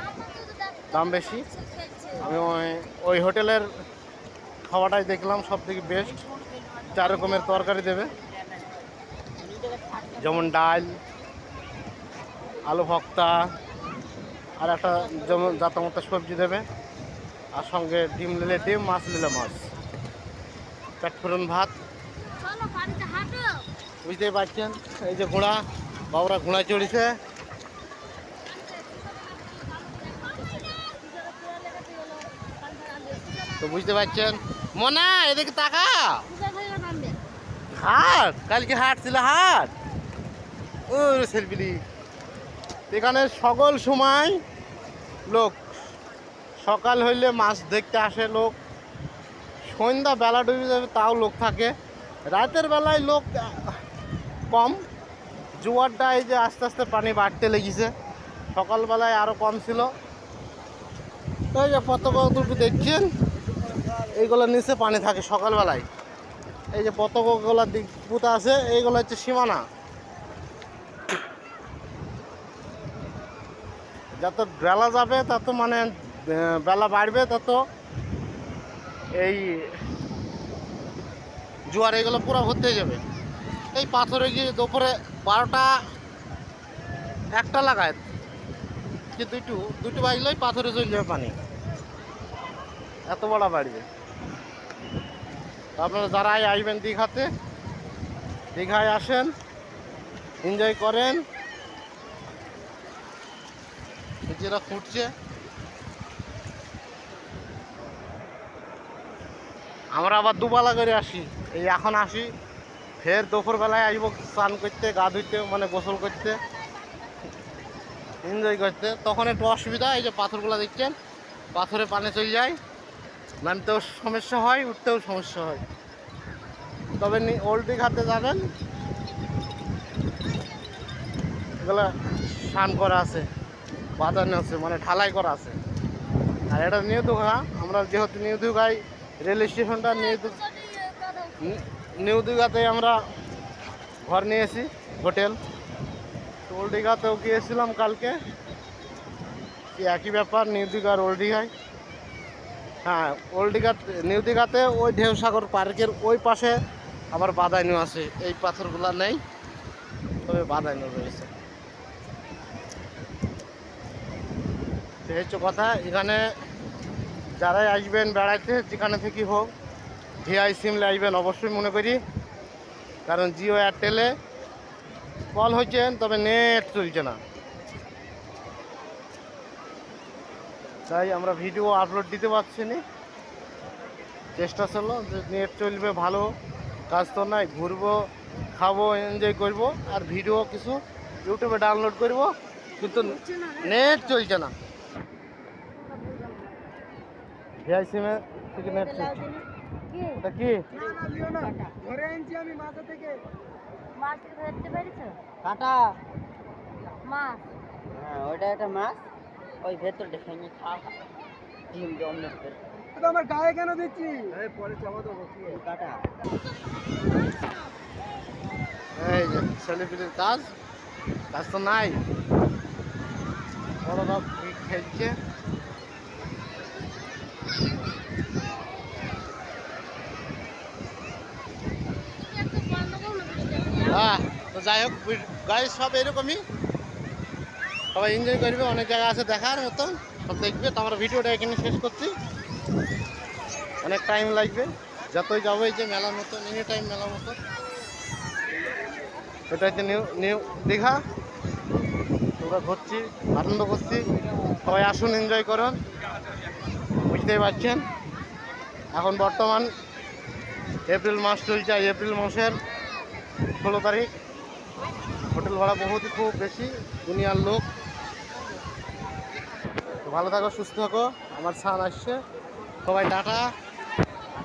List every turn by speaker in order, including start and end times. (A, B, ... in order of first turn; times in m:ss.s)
0:00.2-0:00.9 A
0:00.9-0:01.5 B
0:01.5-0:02.2 A
0:02.2-0:03.7 B
0:04.7-0:06.3 B
0:06.8-0:08.2 B
0:09.4-0:10.4 C
0:10.2-0:11.0 B
0:12.7-0:13.5 B
0:14.6-0:16.6 B
0:17.5-0:19.7 B
0:21.0-0:21.7 B
0:22.4-0:23.7 A
0:24.0-0:27.2 B
0:28.5-0:34.3 A
0:33.6-0:36.3 B
0:36.3-0:37.2 A
0:37.7-0:39.7 B
0:40.9-0:41.8 B
0:42.9-0:44.4 B
0:45.3-0:45.6 B
0:46.6-0:48.6 B
0:49.7-0:51.7 B
0:52.3-0:53.8 B
0:54.5-0:54.8 B
0:55.6-0:57.9 B
0:58.5-0:59.9 B
1:01.5-1:03.1 B
1:04.0-1:05.9 B
1:06.7-1:09.6 B
1:14.2-1:17.6 B
1:19.2-1:19.7 B
1:21.7-1:23.0 B
1:23.7-1:25.8 B
1:27.3-1:28.0 B
1:29.2-1:31.4 B
1:33.1-1:33.9 B
1:35.8-1:37.3 B
1:38.6-1:39.3 B
1:40.4-1:41.2 B
1:44.3-1:45.1 B
1:50.0-1:52.3 B
1:53.0-1:56.4 B
1:58.2-2:01.0 B
2:01.5-2:02.6 B
2:03.4-2:05.6 B
2:07.0-2:08.5 B
2:11.6-2:13.3 B
2:14.0-2:15.6 B
2:16.5-2:20.4 B
2:20.1-2:21.5 A
2:21.4-2:23.0 B
2:24.1-2:25.4 B
2:26.5-2:28.2 B
2:29.8-2:31.5 B
2:32.8-2:36.6 B
2:37.1-2:39.2 B
2:40.2-2:41.3 B
2:45.0-2:46.2 B
2:47.4-2:49.5 B
2:50.2-2:52.0 B
2:53.1-2:54.1 B
2:55.3-2:57.2 B
3:00.9-3:02.8 B
3:04.4-3:06.3 B
3:06.9-3:14.5 B
3:13.2-3:13.6 A
3:17.7-3:19.2 B
3:18.6-3:19.4 C
3:20.2-3:20.7 B
3:20.7-3:22.5 C
3:24.0-3:25.2 A
3:25.4-3:26.0 C
3:27.0-3:27.4 A
3:27.9-3:29.0 C
3:29.6-3:31.0 C
3:31.7-3:32.6 C
3:35.0-3:36.0 C
3:39.0-3:40.5 B
3:41.3-3:42.0 B
3:43.8-3:45.2 B
3:52.2-3:54.1 A
3:53.8-3:56.4 B
3:57.9-4:02.1 B
4:03.8-4:07.4 B
4:09.5-4:11.0 B
4:12.4-4:14.1 B
4:14.6-4:15.8 B
4:17.1-4:17.8 B
4:18.9-4:19.7 B
4:20.9-4:22.6 B
4:23.6-4:24.1 B
4:25.3-4:27.6 B
4:30.0-4:32.2 B
4:32.8-4:33.5 B